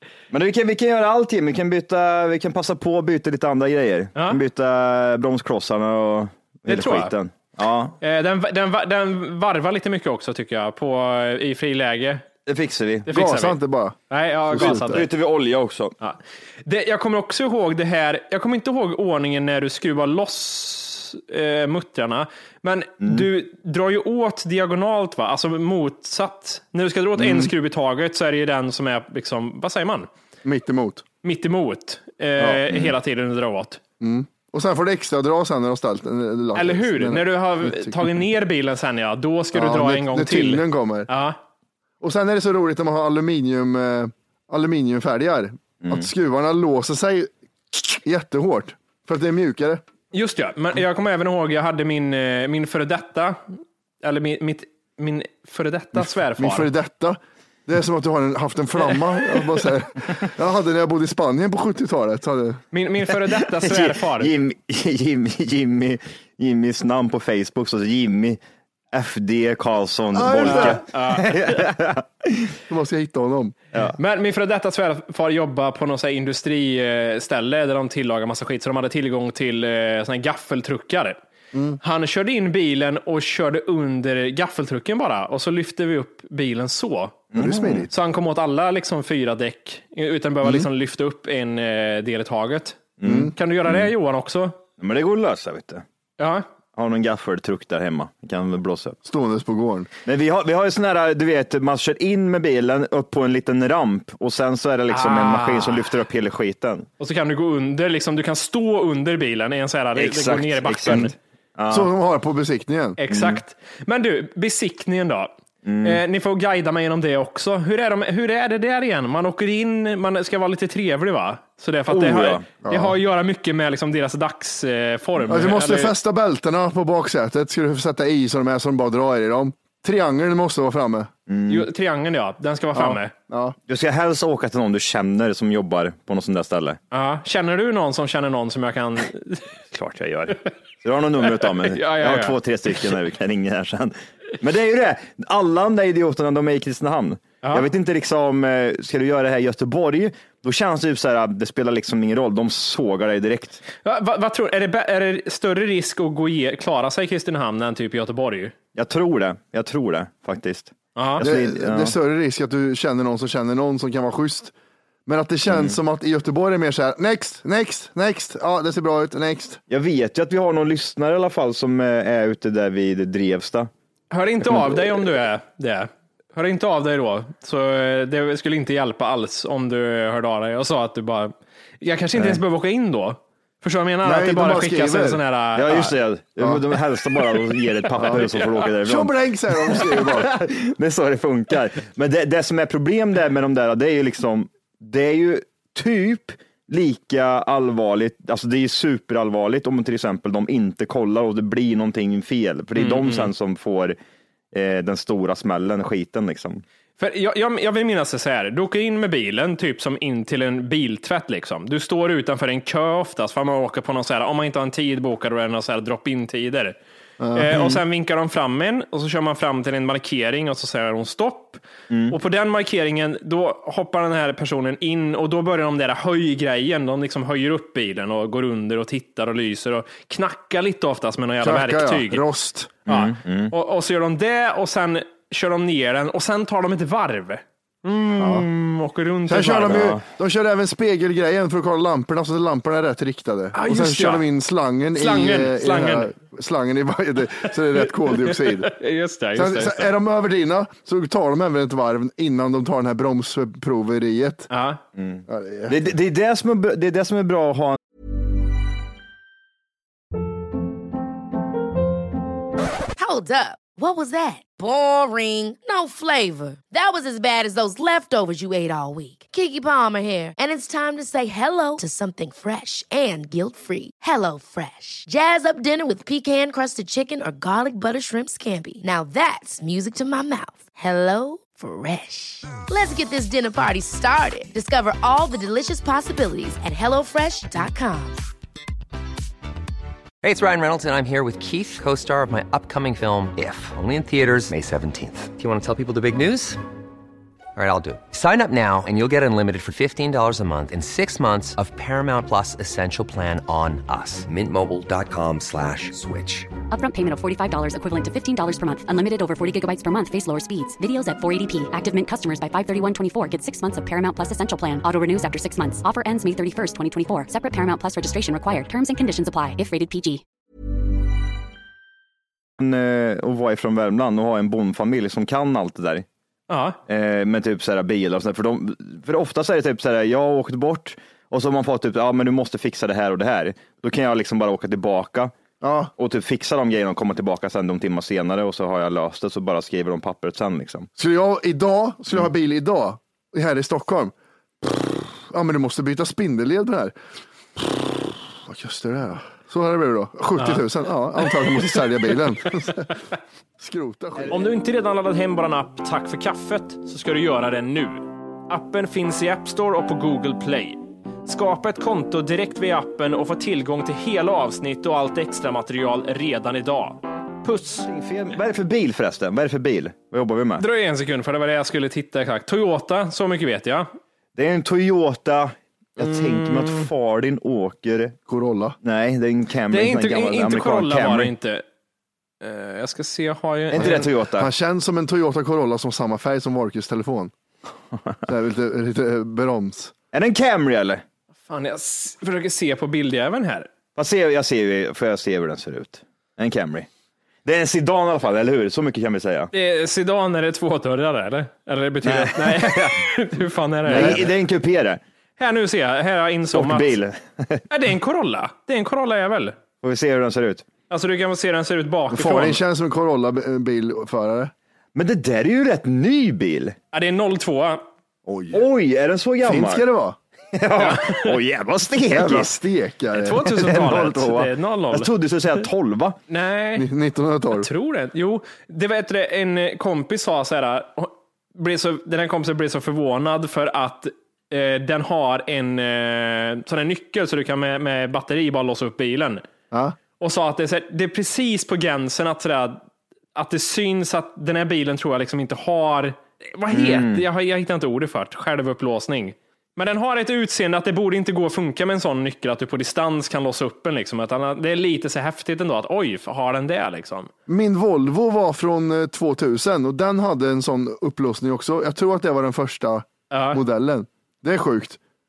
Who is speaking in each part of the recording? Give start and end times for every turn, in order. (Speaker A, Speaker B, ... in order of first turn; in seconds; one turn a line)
Speaker A: 0.3-8.0
Speaker B: 6.7-7.1
Speaker B: 8.0-12.2
Speaker A: 12.5-13.1
Speaker B: 13.1-13.6
Speaker C: 13.1-14.0
Speaker B: 14.1-15.1
Speaker C: 14.5-15.1
Speaker A: 14.6-15.9
Speaker B: 16.0-30.1
Speaker C: 27.2-27.5
Speaker C: 30.4-31.0
Speaker B: 31.2-33.8
Speaker C: 32.4-32.6
Speaker C: 34.0-38.0
Speaker B: 36.5-41.4
Speaker C: 39.5-41.1
Speaker C: 42.0-49.8
Speaker B: 50.1-56.7
Speaker C: 56.4-62.6
Speaker B: 62.7-64.3
Speaker A: 63.6-68.4
Speaker A: 68.9-72.5
Speaker C: 70.1-70.8
Speaker B: 70.4-71.7
Speaker C: 72.7-73.5
Speaker B: 73.9-81.2
Speaker C: 81.5-81.8
Speaker B: 81.8-87.3
Speaker A: 87.3-87.9
Speaker C: 87.3-87.9
Speaker B: 87.9-94.6
Speaker A: 93.0-93.9
Speaker C: 93.0-93.3
Speaker A: 94.8-95.8
Speaker B: 96.2-96.5
Speaker A: 96.8-99.0
Speaker C: 99.0-99.9
Speaker A: 100.1-106.9
Speaker B: 104.9-105.9
Speaker B: 107.0-111.2
Speaker A: 110.0-111.9
Speaker C: 111.7-113.0
Speaker B: 113.0-115.3
Speaker A: 113.1-113.4
Speaker A: 115.7-116.0
Speaker B: 115.8-125.9
Speaker A: 121.9-122.5
Speaker C: 122.6-123.0
Speaker C: 125.3-131.1
Speaker A: 131.3-131.7
Speaker B: 131.5-133.1
Speaker C: 132.8-133.6
Speaker A: 133.7-136.8
Speaker B: 136.9-139.4
Speaker A: 139.7-153.6
Speaker B: 141.3-142.9
Speaker B: 147.4-147.7
Speaker B: 153.8-158.6
Speaker A: 158.8-161.9
Speaker B: 161.0-161.2
Speaker C: 161.2-164.5
Speaker C: 165.1-169.6
Speaker A: 165.5-165.8
Speaker A: 169.7-173.7
Speaker B: 174.1-185.9
Speaker A: 174.5-174.8
Speaker C: 184.0-185.2
Speaker A: 185.6-204.0
Speaker C: 188.0-188.3
Speaker B: 188.0-188.6
Speaker C: 188.8-190.3
Speaker B: 202.8-203.3
Speaker A: 204.5-206.6
Speaker B: 207.0-216.8
Speaker C: 217.2-217.8
Speaker B: 217.3-232.2
Speaker A: 221.9-222.2
Speaker C: 231.4-232.7
Speaker A: 232.9-233.5
Speaker B: 232.9-240.0
Speaker C: 238.2-238.5
Speaker C: 239.3-248.7
Speaker B: 243.5-244.3
Speaker B: 244.9-246.1
Speaker B: 248.1-249.9
Speaker C: 249.3-254.5
Speaker B: 254.5-254.8
Speaker A: 255.0-257.8
Speaker C: 255.3-255.8
Speaker D: 263.0-288.3
Speaker E: 290.2-296.6
Speaker E: 297.6-306.5
Speaker F: 306.7-320.2
Speaker A: 322.6-326.1
Speaker B: 326.5-326.8
Speaker A: 326.9-335.3
Speaker C: 335.6-335.9
Speaker A: 336.0-340.9
Speaker C: 341.0-346.9
Speaker C: 347.6-352.9
Speaker B: 350.4-350.7
Speaker B: 351.3-351.6
Speaker C: 353.6-354.5
Speaker B: 354.3-367.9
Speaker A: 367.8-370.6
Speaker B: 370.6-373.9
Speaker A: 374.4-378.2
Speaker B: 376.0-376.9
Speaker C: 378.3-378.8
Speaker A: 378.8-381.3
Speaker B: 379.7-381.6
Speaker B: 382.4-384.1
Speaker A: 383.7-384.5
Speaker C: 383.8-387.3
Speaker C: 388.3-389.9
Speaker A: 390.1-391.0
Speaker B: 391.5-393.7
Speaker A: 394.0-396.9
Speaker A: 397.4-399.5
Speaker B: 399.5-404.3
Speaker A: 402.0-403.1
Speaker A: 403.9-405.0
Speaker C: 403.9-404.2
Speaker B: 405.4-407.0
Speaker A: 406.5-407.6
Speaker B: 407.7-409.6
Speaker A: 409.8-410.6
Speaker B: 410.9-412.6
Speaker C: 412.1-414.5
Speaker A: 414.9-416.8
Speaker B: 416.9-417.8
Speaker C: 418.3-418.6
Speaker A: 418.5-419.8
Speaker C: 419.4-420.2
Speaker A: 420.5-422.5
Speaker B: 420.8-421.4
Speaker C: 422.1-423.4
Speaker B: 423.1-425.6
Speaker A: 423.4-426.2
Speaker B: 426.3-426.9
Speaker C: 426.8-427.7
Speaker B: 427.5-439.4
Speaker C: 439.7-440.0
Speaker B: 440.2-442.8
Speaker B: 443.4-457.3
Speaker A: 446.7-447.2
Speaker C: 457.5-465.0
Speaker B: 463.3-463.6